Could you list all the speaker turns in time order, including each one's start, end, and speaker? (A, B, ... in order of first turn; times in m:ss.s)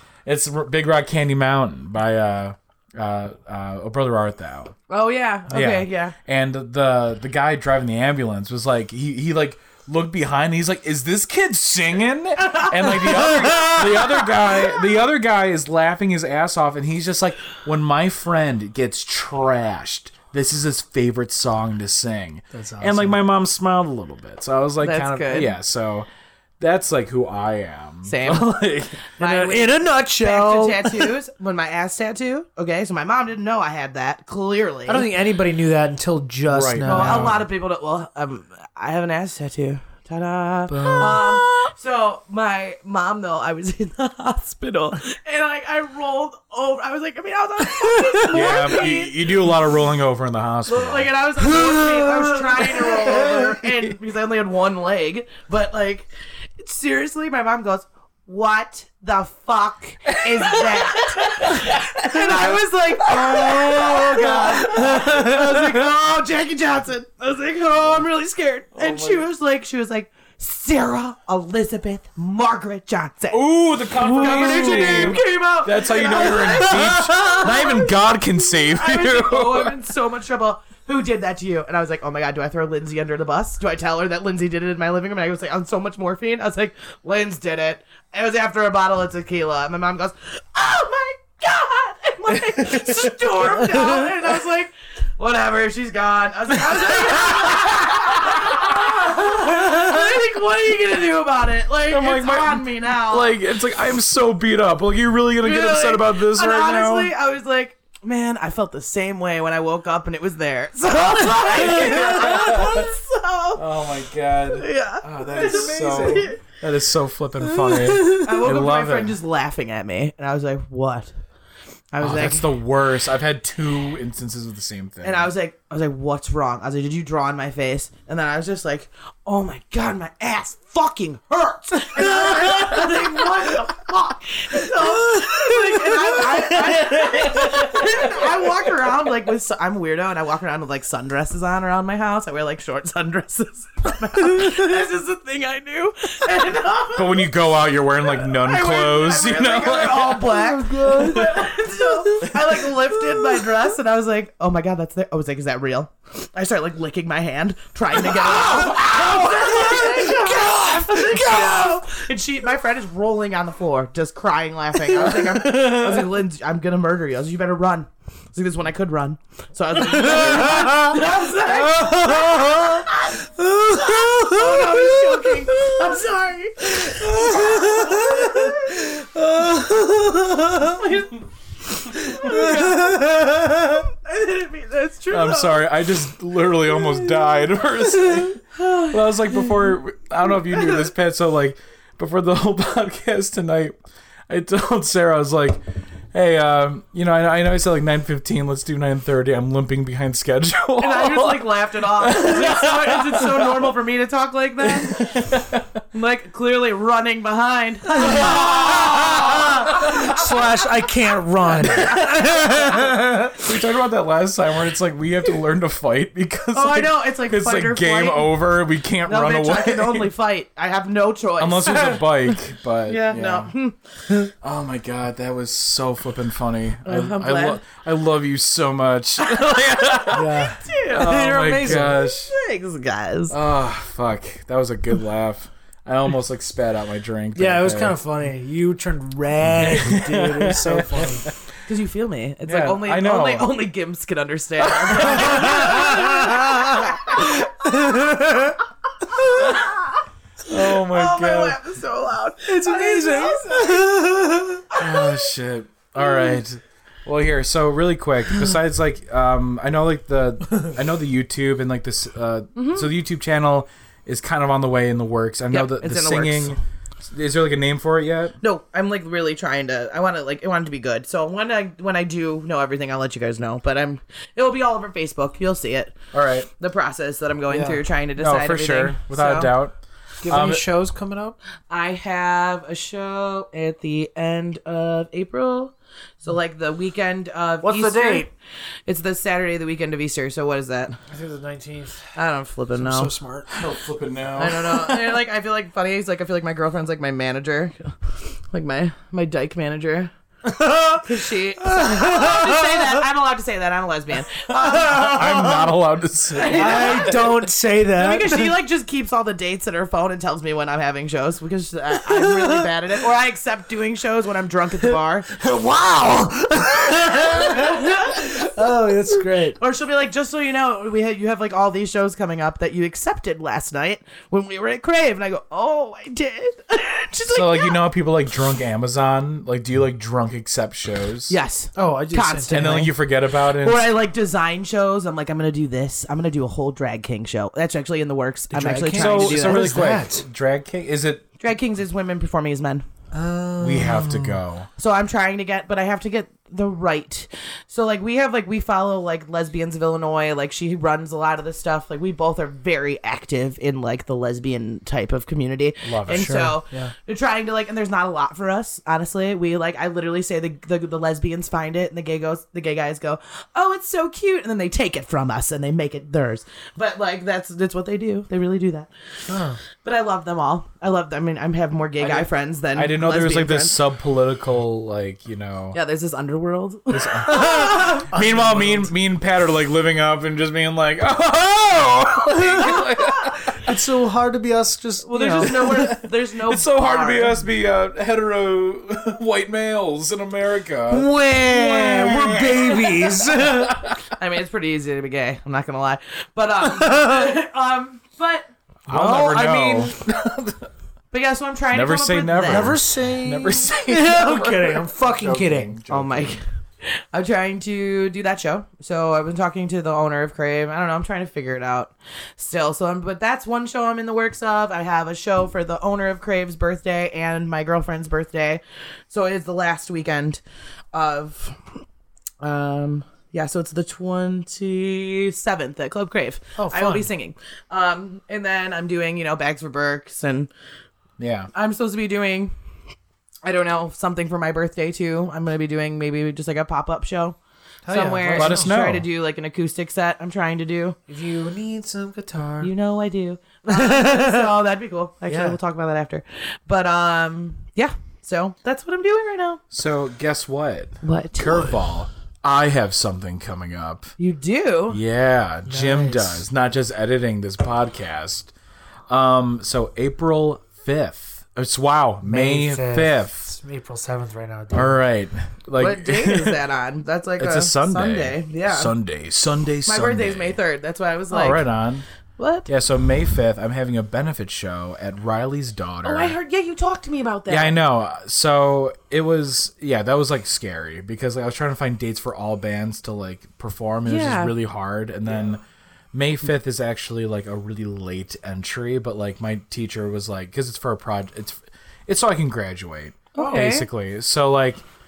0:00.2-0:04.7 A
0:04.9-0:06.1 B
0:05.5-0:26.1 A
0:12.4-0:14.6 B
0:22.5-0:23.2 C
0:24.8-0:25.6 B
0:26.6-0:29.0 A
0:28.1-0:28.5 B
0:29.2-0:35.1 B
0:29.2-0:31.2 C
0:34.9-0:37.4 C
0:36.5-0:37.4 A
0:36.8-0:49.5 B
0:40.7-0:41.5 C
0:47.7-0:48.4 C
0:48.2-0:51.1 A
0:50.6-1:17.9 B
0:51.8-0:53.4 C
1:00.1-1:05.8 A
1:08.8-1:09.2 A
1:13.3-1:19.8 A
1:14.3-1:15.1 C
1:18.6-1:43.3 B
1:41.9-1:47.1 A
1:45.4-1:53.6 B
1:51.4-1:52.9 A
1:53.5-1:59.2 A
1:54.5-1:56.4 B
1:55.4-1:56.3 C
1:57.8-2:01.1 B
2:01.9-2:02.5 B
2:02.0-2:05.3 A
2:05.0-2:27.3 B
2:15.5-2:16.4 C
2:26.9-2:30.4 A
2:28.0-2:59.2 B
2:30.2-2:31.6 C
2:38.1-2:40.1 A
2:39.7-2:41.5 C
2:45.0-2:45.8 C
2:49.9-2:51.0 C
2:51.6-2:56.0 C
2:56.8-3:00.8 C
3:00.4-3:01.2 B
3:01.8-3:05.7 B
3:02.0-3:03.8 C
3:05.1-3:13.8 A
3:06.9-3:07.3 B
3:07.9-3:09.8 B
3:14.3-3:15.6 A
3:16.1-3:23.7 A
3:20.8-3:25.1 B
3:24.6-3:25.8 A
3:25.9-3:29.9 B
3:28.0-3:30.2 A
3:28.1-3:33.4 C
3:31.4-3:32.7 B
3:33.4-3:40.1 A
3:36.5-3:38.4 B
3:39.0-3:43.8 B
3:41.4-3:43.5 A
3:44.2-3:50.3 A
3:46.8-3:47.6 B
3:49.2-3:53.4 B
3:50.1-3:52.0 C
3:50.9-3:52.3 A
3:53.3-3:58.0 A
3:57.3-4:01.3 C
3:59.6-4:01.4 A
4:01.7-4:07.9 B
4:02.4-4:03.5 A
4:04.6-4:06.5 A
4:05.6-4:06.7 C
4:07.6-4:08.6 C
4:09.1-4:10.0 B
4:10.5-4:11.6 A
4:10.5-4:15.3 B
4:12.4-4:14.6 C
4:14.8-4:28.3 A
4:16.0-4:16.4 B
4:22.6-4:22.9 B
4:25.5-4:26.5 B
4:28.4-4:36.0 B
4:36.1-4:36.5 A
4:36.6-4:39.5 B
4:37.5-4:37.8 C
4:38.2-4:39.8 A
4:40.2-4:41.4 C
4:40.3-4:40.6 A
4:41.7-4:48.3 B
4:47.6-4:48.3 C
4:48.9-4:51.0 B
4:51.1-4:52.0 C
4:52.1-4:53.1 B
4:52.8-4:53.6 C
4:53.5-4:55.1 A
4:54.3-5:00.1 B
5:00.4-5:03.0 C
5:01.0-5:05.7 B
5:04.3-5:05.4 C
5:04.7-5:07.2 A
5:06.3-5:15.4 B
5:06.5-5:08.6 C
5:12.0-5:12.7 C
5:15.3-5:19.6 C
5:17.1-5:18.5 B
5:19.6-5:27.8 B
5:27.3-5:31.4 A
5:31.3-5:39.7 B
5:31.8-5:32.9 C
5:32.5-5:33.8 A
5:38.5-5:40.2 C
5:38.9-5:41.2 A
5:41.4-5:42.8 B
5:43.1-5:44.4 C
5:43.6-5:44.7 A
5:44.8-6:08.9 B
5:55.8-5:56.5 A
5:56.1-5:56.9 C
6:09.3-6:09.6 C
6:09.8-6:13.8 B
6:12.0-6:15.8 A
6:15.7-6:18.1 B
6:16.9-6:23.6 A
6:17.9-6:18.9 C
6:23.6-6:25.9 C
6:25.0-6:27.4 B
6:25.4-6:34.0 A
6:30.9-6:33.8 C
6:34.2-6:39.7 B
6:36.6-6:37.3 C
6:38.9-6:40.7 A
6:38.9-6:39.9 C
6:41.1-6:42.8 B
6:41.7-6:46.4 A
6:42.4-6:45.7 C
6:45.9-7:00.4 B
7:00.9-7:01.6 B
7:02.4-7:10.5 B
7:06.6-7:07.1 C
7:11.2-7:11.5 A
7:11.5-7:12.5 B
7:13.4-7:17.4 B
7:17.8-7:18.8 C
7:17.9-7:21.0 B
7:18.4-7:19.0 A
7:21.1-7:22.7 C
7:22.6-7:29.6 B
7:23.7-7:24.5 C
7:25.3-7:25.6 C
7:29.7-7:34.1 A
7:31.0-7:31.7 B
7:34.2-7:35.0 B
7:34.9-7:38.5 A
7:35.7-7:36.4 C
7:39.1-7:43.5 A
7:42.2-7:45.0 C
7:44.7-7:46.6 A
7:45.8-7:48.9 B
7:47.4-7:50.6 A
7:49.8-7:51.6 B
7:51.3-7:52.0 A
7:52.4-7:52.7 B
7:52.7-7:56.4 A
7:56.0-7:57.8 B
7:57.5-8:05.6 A
8:04.0-8:04.5 B
8:06.1-8:14.8 A
8:13.3-8:13.9 B